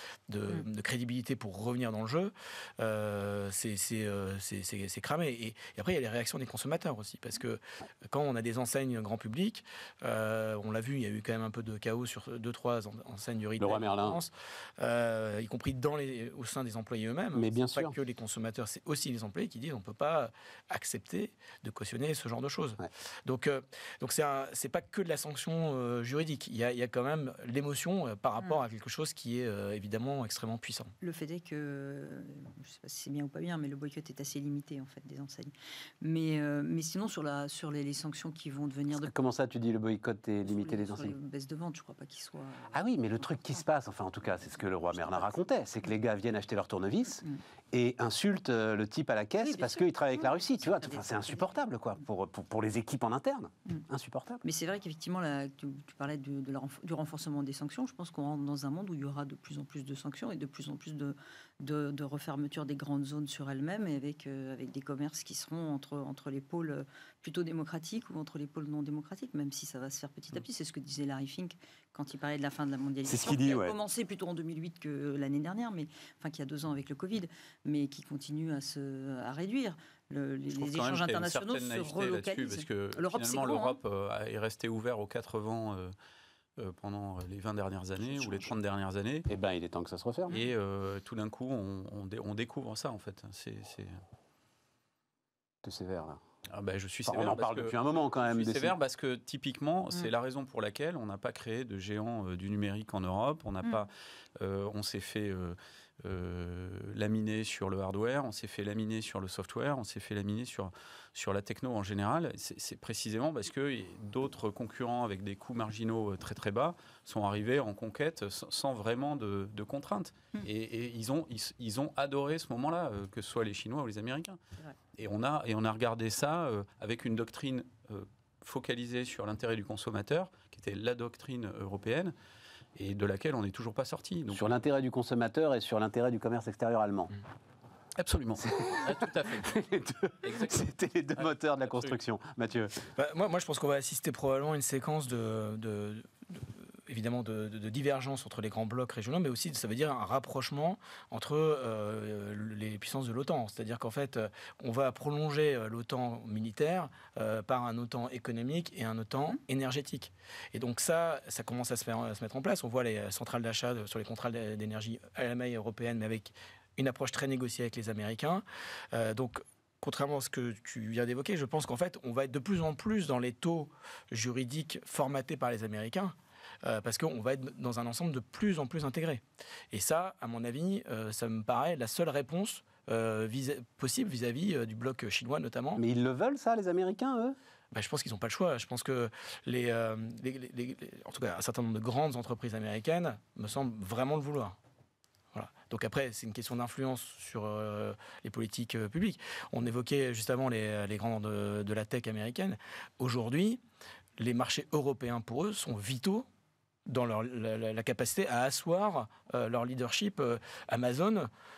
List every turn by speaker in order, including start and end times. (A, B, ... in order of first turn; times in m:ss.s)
0:00.3-0:30.9 A
0:13.6-0:14.2 B
0:17.4-0:18.0 B
0:31.0-0:39.1 C
0:38.9-0:41.2 B
0:40.4-0:42.8 C
0:42.7-0:54.4 B
0:49.4-0:51.6 C
0:54.4-1:23.8 C
1:13.1-1:13.8 B
1:20.5-1:25.9 D
1:26.6-1:29.3 D
1:28.2-1:28.5 B
1:29.3-1:30.4 B
1:30.3-1:34.0 D
1:35.6-1:36.2 B
1:36.5-2:04.4 D
1:37.0-1:38.8 B
2:04.9-2:12.1 D
2:12.8-2:14.5 D
2:14.3-2:17.1 B
2:18.0-2:19.7 D
2:18.4-2:22.9 B
2:20.2-2:22.0 D
2:23.0-3:05.8 A
3:05.8-3:07.4 B
3:07.7-3:14.6 A
3:15.3-3:23.6 A
3:24.2-3:26.3 A
3:26.9-3:31.3 A